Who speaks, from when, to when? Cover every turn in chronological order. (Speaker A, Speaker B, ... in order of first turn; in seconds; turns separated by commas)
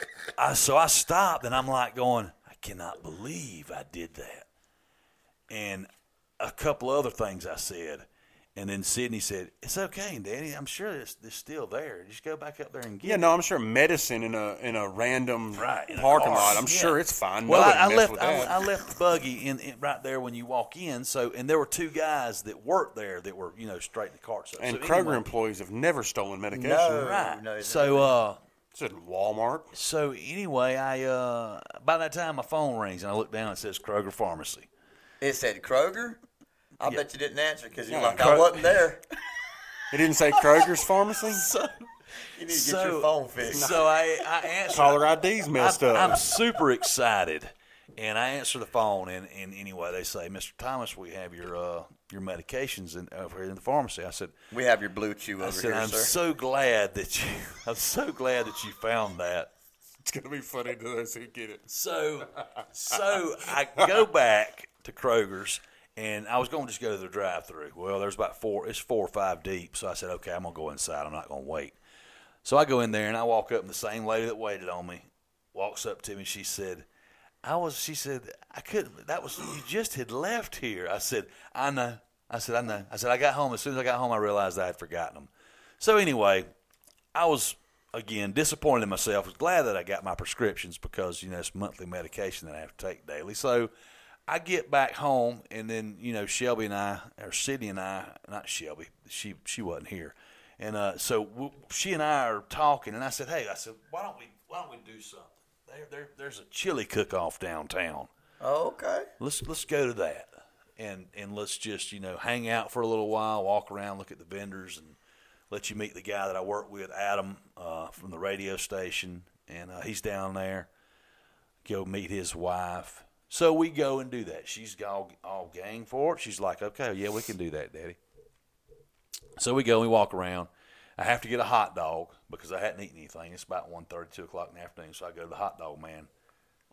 Speaker A: 0.3-4.5, Speaker A: 5.5-5.9, Speaker A: 6.4-13.3, Speaker B: 13.0-18.6, Speaker A: 15.6-25.2, Speaker B: 24.6-27.1, Speaker C: 26.5-28.1, Speaker A: 26.9-28.4, Speaker B: 28.7-29.7, Speaker A: 29.7-34.7, Speaker C: 35.2-36.2, Speaker C: 36.8-39.0, Speaker B: 37.9-38.3, Speaker A: 38.1-38.9, Speaker B: 39.9-41.5, Speaker A: 41.3-41.7, Speaker C: 42.4-44.0, Speaker A: 42.5-45.0, Speaker B: 43.5-43.8, Speaker B: 44.7-46.2, Speaker A: 45.5-54.3, Speaker C: 54.5-56.1, Speaker A: 55.4-59.5, Speaker B: 60.0-61.7, Speaker A: 61.7-71.8, Speaker B: 62.4-63.1, Speaker B: 63.7-64.0, Speaker A: 72.4-76.8, Speaker A: 77.4-86.5, Speaker A: 87.1-93.7, Speaker A: 94.3-108.1, Speaker C: 108.4-109.1, Speaker A: 109.2-115.0, Speaker A: 115.5-120.7, Speaker A: 121.6-128.0, Speaker A: 129.4-136.1